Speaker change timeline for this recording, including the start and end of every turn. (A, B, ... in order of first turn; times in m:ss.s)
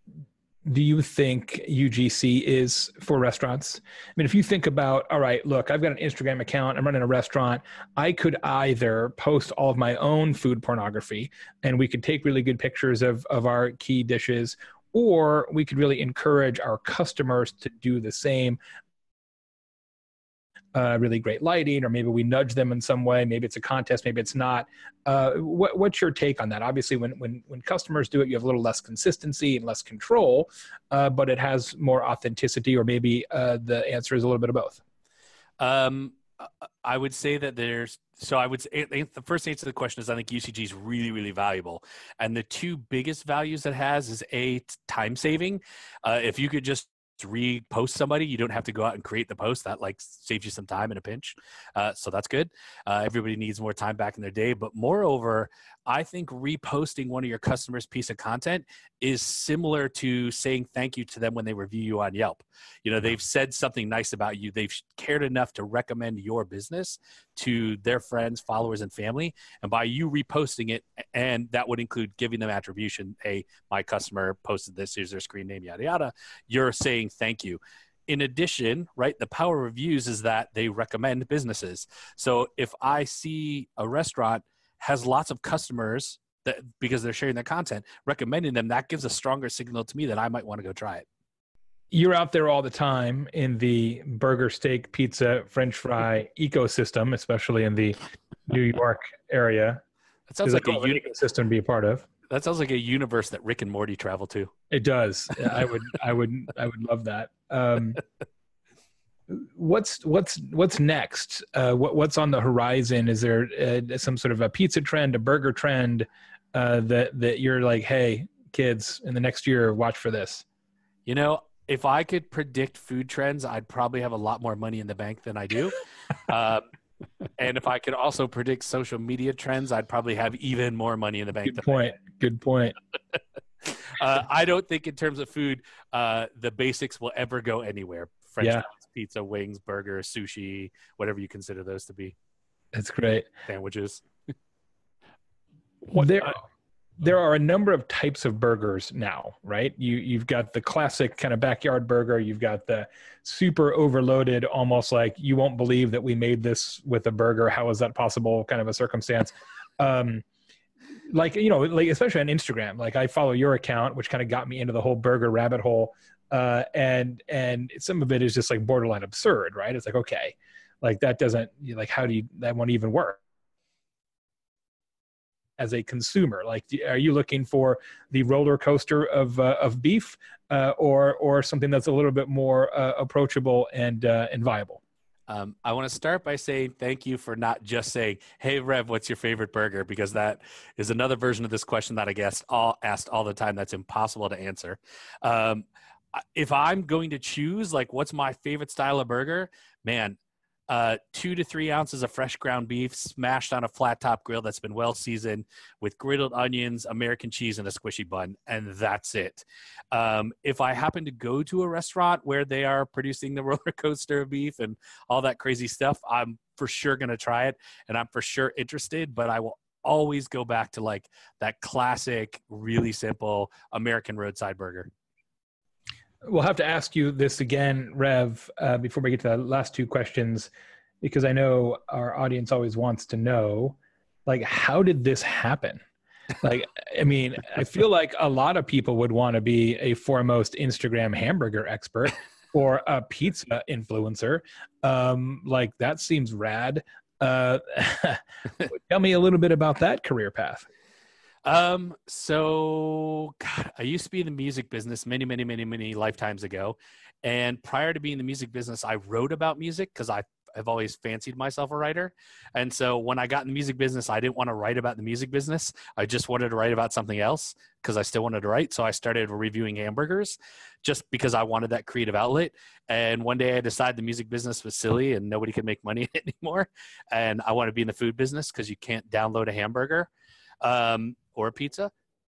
0:00.6-0:18.6 A
0:20.7-0:34.8 A
0:35.6-0:36.2 B
0:36.8-1:31.0 B
1:31.9-1:39.8 A
1:40.3-1:41.1 B
1:40.4-1:42.0 A
1:42.3-1:44.5 B
1:44.7-1:48.0 A
1:49.3-2:00.4 A
2:01.0-2:05.8 B
2:06.3-2:06.6 B
2:07.4-2:11.8 B
2:11.4-2:12.7 A
2:13.6-2:22.2 B
2:22.7-2:23.3 A
2:23.5-2:24.0 B
2:25.9-2:26.4 A
2:27.0-2:40.2 A
2:41.1-2:53.2 A
2:55.6-3:04.8 A
3:05.3-3:15.6 B
3:16.3-3:20.2 B
3:20.7-3:44.9 B
3:46.2-3:50.5 A
3:51.0-3:55.8 A
3:56.4-4:10.6 A
4:11.4-4:40.1 B
4:40.6-4:41.9 B